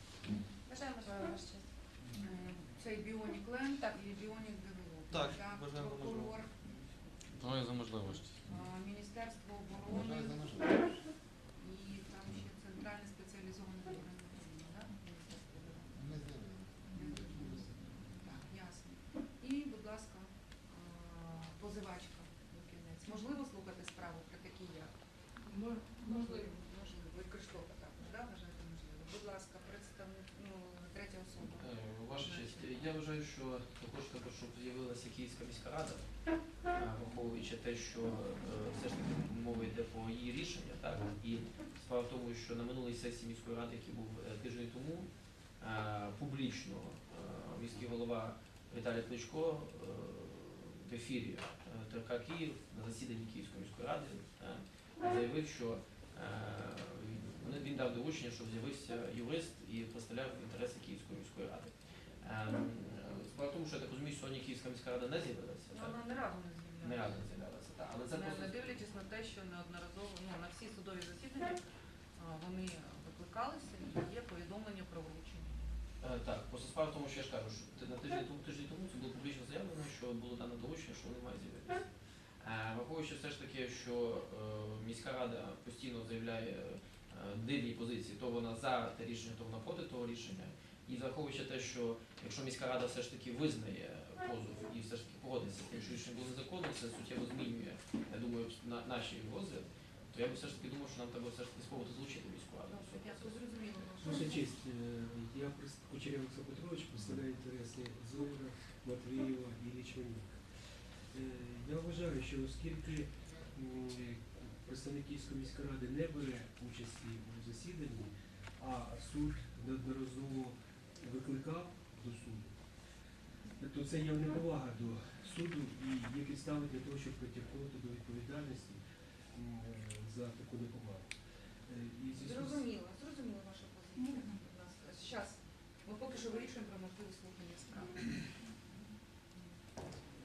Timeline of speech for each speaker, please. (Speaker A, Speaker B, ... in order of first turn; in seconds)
Speaker A: 0.6-1.6, 2.2-6.6, 8.1-10.8, 11.6-16.0, 16.9-24.9, 25.6-32.7, 65.7-67.2, 68.1-75.5, 102.7-104.5, 132.1-138.1
Speaker B: 5.1-6.3, 7.3-8.6
Speaker C: 9.9-11.0, 15.9-18.3
Speaker D: 31.6-36.0, 36.7-45.1, 45.6-66.0, 66.8-68.8, 76.0-81.9, 82.4-103.4
Speaker E: 104.0-110.4, 111.1-122.5, 123.6-128.8, 129.3-131.1, 131.7-132.6